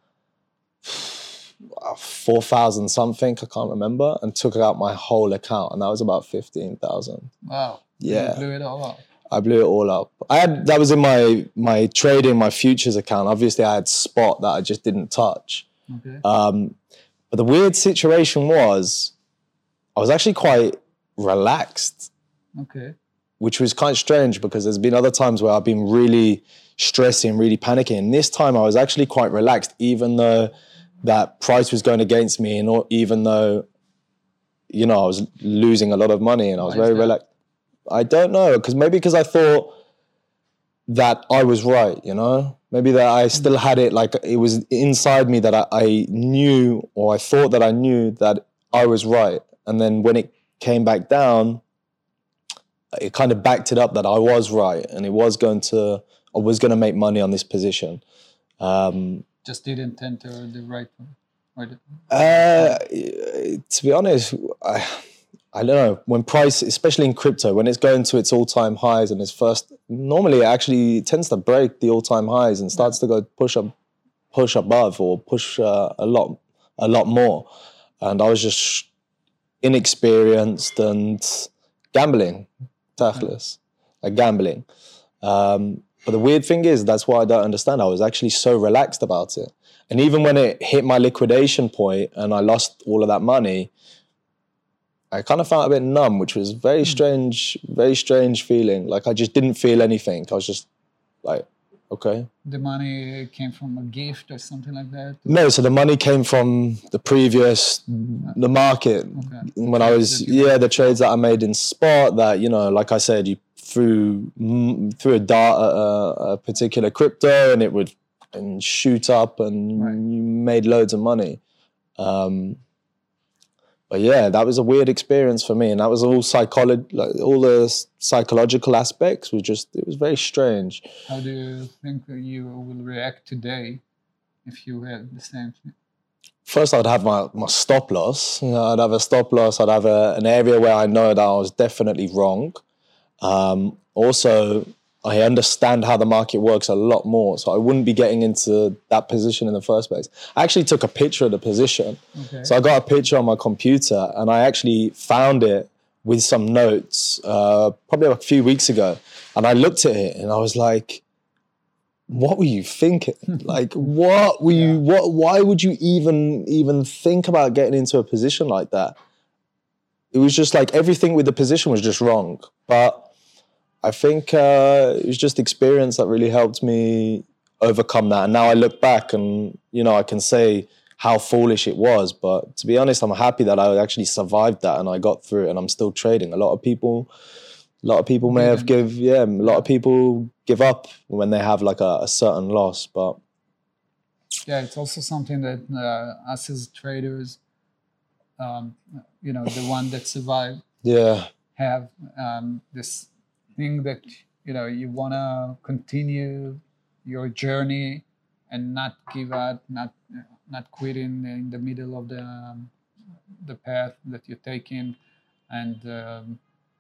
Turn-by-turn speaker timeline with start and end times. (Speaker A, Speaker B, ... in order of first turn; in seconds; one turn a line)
Speaker A: 0.8-7.3
Speaker B: 7.4-9.0
Speaker A: 8.0-8.4
Speaker A: 9.3-15.7
Speaker B: 15.9-16.2
Speaker A: 16.2-16.8
Speaker A: 17.3-19.1
Speaker A: 19.9-22.1
Speaker B: 22.6-22.9
Speaker A: 23.4-30.5
Speaker A: 31.0-33.7
Speaker A: 34.7-37.2
Speaker B: 36.6-37.1
Speaker A: 37.9-39.7
Speaker A: 40.9-51.6
Speaker A: 52.9-58.0
Speaker A: 58.6-59.2
Speaker B: 59.4-62.8
Speaker A: 62.1-65.0
Speaker A: 65.5-73.7
Speaker A: 74.3-77.5
Speaker A: 78.0-78.9
Speaker A: 79.6-84.6
Speaker A: 85.2-93.7
Speaker A: 95.1-100.7
Speaker A: 101.2-102.3
Speaker B: 102.4-105.5
Speaker A: 105.3-121.4
Speaker B: 109.1-110.7
Speaker B: 119.8-120.0
Speaker A: 122.0-122.6
Speaker A: 123.9-130.9
Speaker B: 131.1-133.8
Speaker B: 134.4-135.7
Speaker A: 136.4-142.6
Speaker A: 143.2-161.0
Speaker B: 152.1-152.5
Speaker A: 162.1-169.0
Speaker B: 164.5-164.8
Speaker A: 170.1-173.1
Speaker A: 173.8-187.1
Speaker A: 187.8-193.2
Speaker B: 188.3-188.7
Speaker B: 194.4-197.4
Speaker B: 198.4-200.6
Speaker A: 200.8-201.3
Speaker B: 201.6-212.7
Speaker B: 213.3-215.0
Speaker B: 215.5-216.4